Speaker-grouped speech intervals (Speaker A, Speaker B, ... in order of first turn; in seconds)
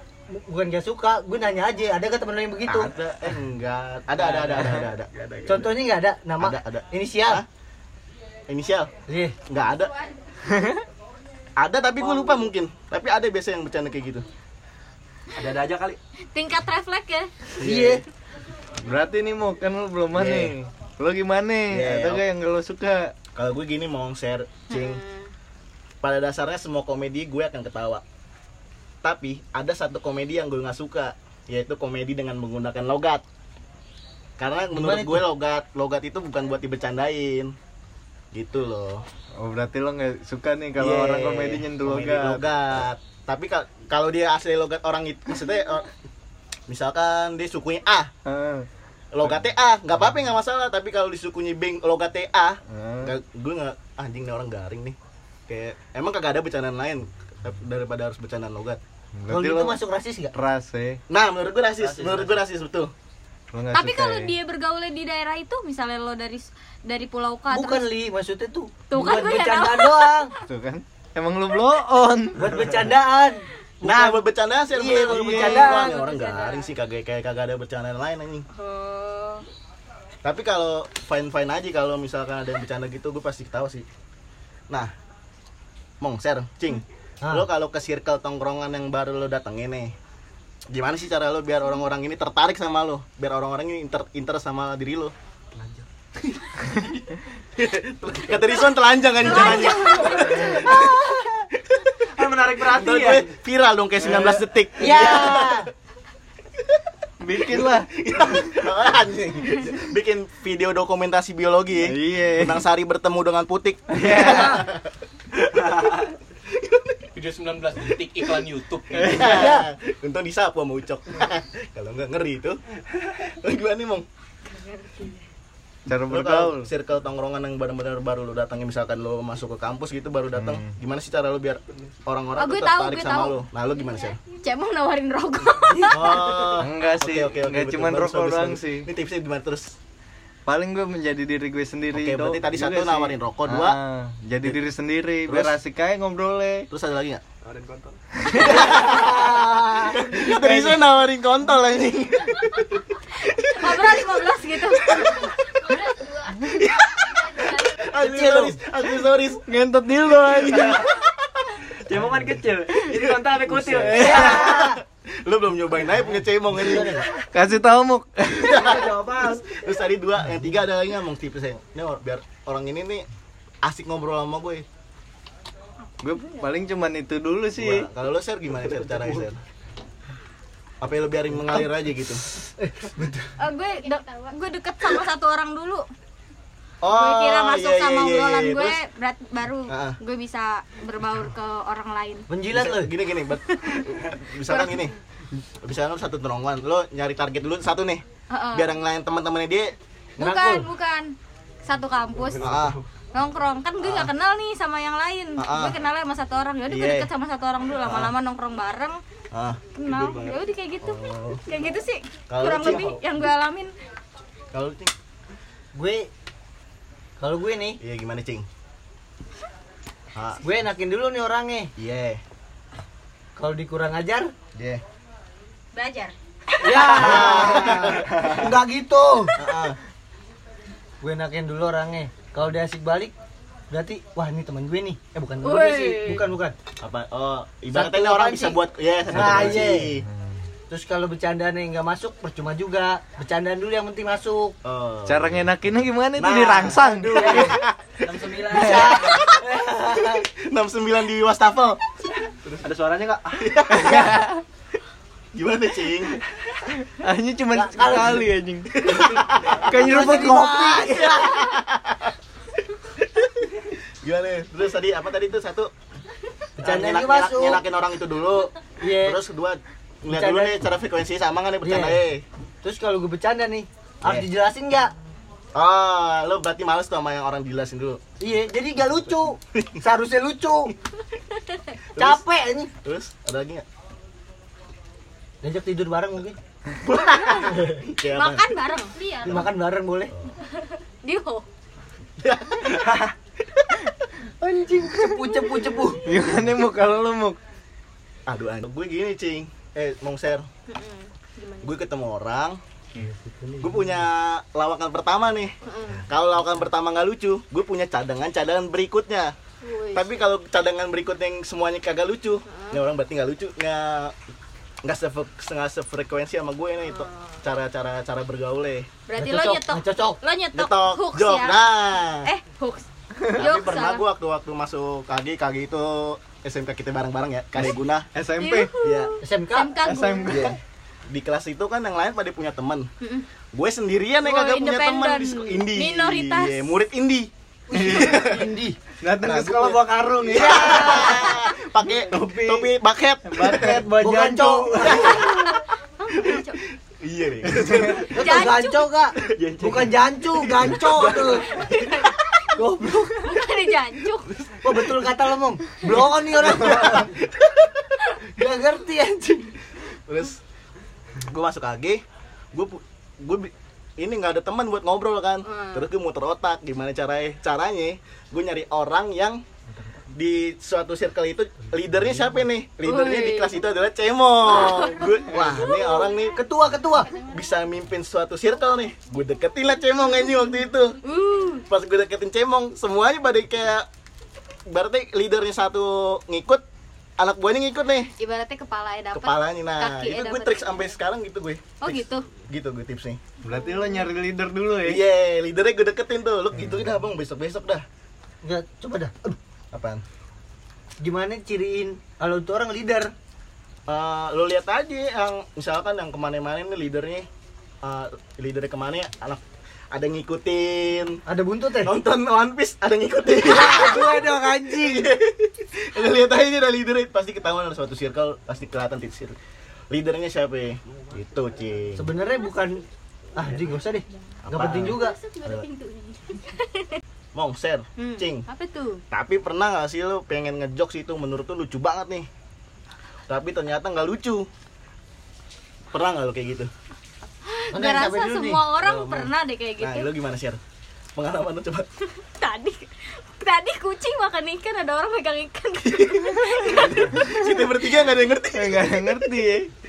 Speaker A: 0.3-2.9, 5.5-7.4, 9.1-9.4, 17.6-18.0, 34.7-35.3, 59.3-60.3, 67.5-70.3, 72.4-75.9, 87.2-87.5, 100.5-101.3, 104.8-105.7, 114.2-114.6, 119.2-119.7, 148.5-150.0, 157.9-158.6, 164.0-164.8, 166.5-167.1, 182.6-183.3, 192.3-192.9, 200.2-200.7, 215.7-216.1, 217.2-217.8, 220.4-221.7, 223.4-224.3, 226.6-229.4, 231.0-233.1, 233.7-236.6, 237.7-238.6, 239.1-239.9, 240.7-244.6, 248.5-250.3, 257.5-258.3, 259.7-261.4, 266.6-267.6, 268.8-269.2, 270.1-270.6, 271.6-272.0, 272.6-274.9, 278.2-280.7, 282.0-282.7, 285.4-286.4, 287.5-287.8, 289.2-290.1, 294.4-296.0, 319.2-320.2, 329.2-330.0, 337.7-338.8, 340.3-341.4, 344.0-345.5, 348.1-351.5, 352.5-353.5, 354.6-357.1, 358.4-359.5, 376.3-377.1, 398.4-399.4, 401.0-403.1, 411.3-411.9, 413.4-415.1, 421.9-422.8, 423.4-425.2, 437.7-438.6
Speaker B: 2.7-5.7, 6.4-7.5, 8.5-8.9, 9.5-9.9, 11.6-14.2, 17.6-18.1, 20.1-20.6, 21.7-22.2, 23.4-25.0, 26.0-28.0, 29.0-33.2, 34.4-37.5, 38.3-39.0, 40.8-45.9, 46.7-48.1, 49.1-55.0, 55.5-58.8, 61.1-62.9, 73.8-78.5, 80.2-83.9, 86.0-90.0, 90.7-95.1, 97.6-101.1, 101.6-102.1, 102.6-105.6, 107.5-114.9, 116.5-117.0, 119.1-122.6, 123.2-124.1, 126.1-134.2, 135.8-139.8, 141.9-143.8, 145.3-145.6, 146.7-147.2, 148.3-154.1, 154.8-155.8, 156.5-159.4, 160.5-161.5, 163.5-167.1, 168.4-173.1, 173.6-174.7, 177.6-179.4, 180.8-182.2, 186.8-188.8, 189.7-190.0, 192.5-194.9, 195.6-199.8, 202.4-202.8, 203.8-204.1, 205.4-205.8, 206.7-207.1, 207.8-208.1, 209.3-209.6, 210.8-211.4, 212.3-213.0, 214.5-214.9, 217.8-218.5, 220.2-220.4, 221.8-222.2, 224.6-224.8, 226.8-228.6, 229.4-229.8, 236.8-240.1, 244.6-245.5, 246.2-248.0, 248.6-249.4, 250.0-251.8, 253.4-254.2, 255.3-256.2, 258.7-259.7, 260.9-262.1, 263.2-263.5, 264.0-265.7, 266.6-272.2, 275.6-278.0, 279.5-279.8, 282.0-282.2, 282.8-283.6, 286.8-288.6, 292.2-293.1, 298.3-300.5, 301.6-302.6, 303.6-305.5, 306.1-309.4, 309.9-314.2, 314.8-318.9, 320.5-322.3, 323.3-328.1, 328.8-329.1, 330.3-330.6, 331.1-332.9, 333.5-338.4, 339.2-343.8, 344.9-345.5, 347.0-348.4, 350.9-351.9, 356.5-357.1, 360.1-360.4, 361.2-369.4, 370.1-381.0, 381.7-383.9, 384.7-386.6, 387.2-388.1, 389.1-393.2, 394.8-397.8, 399.7-400.0, 403.9-407.3, 407.8-411.2, 411.8-419.4, 419.9-422.1, 424.5-425.7, 427.4-428.5, 429.1-432.3, 433.3-434.5, 435.9-436.7, 438.8-440.6, 441.2-441.9, 445.9-449.3
Speaker C: 4.2-5.6, 15.3-16.0, 61.8-62.4, 95.5-95.8, 102.2-103.3, 147.4-148.0, 161.8-164.6, 168.5-169.6, 202.3-202.8, 209.8-210.4, 248.0-249.1, 252.5-253.8, 292.8-293.1, 342.1-342.7, 343.6-345.1, 349.3-350.0
Speaker D: 10.5-10.8, 18.8-23.1, 39.4-42.5, 48.2-48.7, 52.7-53.1, 59.2-59.8, 60.3-61.0, 63.5-64.3, 70.4-72.6, 75.1-75.8, 104.0-104.5, 107.2-108.7, 111.8-112.6, 113.9-114.7, 119.0-119.3, 125.9-126.7, 130.3-130.7, 136.6-138.9, 140.5-146.7, 150.2-150.9, 159.5-160.9, 163.7-164.5, 167.1-168.6, 176.0-177.9, 239.2-240.4, 245.1-247.6, 248.6-248.9, 253.8-254.4, 256.7-259.1, 259.6-261.1, 296.0-297.4, 327.6-328.8, 329.8-330.6, 337.8-338.1, 339.0-341.0, 342.1-342.5, 343.3-344.6, 347.6-348.0, 393.4-395.0, 448.5-449.7
Speaker E: 16.3-17.3, 24.7-25.3, 63.7-67.9, 68.9-70.3, 75.4-76.7, 78.5-79.5, 99.2-100.5, 124.5-125.2, 132.4-133.5, 134.2-136.5, 153.4-155.3, 183.4-185.8, 186.9-192.3, 194.5-194.8, 198.3-198.8, 200.2-202.6, 203.1-209.0, 209.8-213.7, 225.7-227.2, 235.4-236.3, 288.1-289.4, 290.6-291.5, 300.7-301.7, 305.6-306.1, 309.6-310.1, 312.5-312.8, 316.9-317.4, 319.1-324.0, 328.4-330.5, 333.0-333.3, 334.2-336.7, 344.9-346.6, 348.1-348.9, 351.2-352.5, 353.2-354.3, 365.5-365.9, 372.8-373.7, 374.5-376.2, 381.0-381.7, 388.2-390.9, 391.8-392.2, 393.5-394.0, 424.8-427.0, 428.0-429.0, 437.5-440.1, 442.2-447.6
Speaker F: 117.2-119.2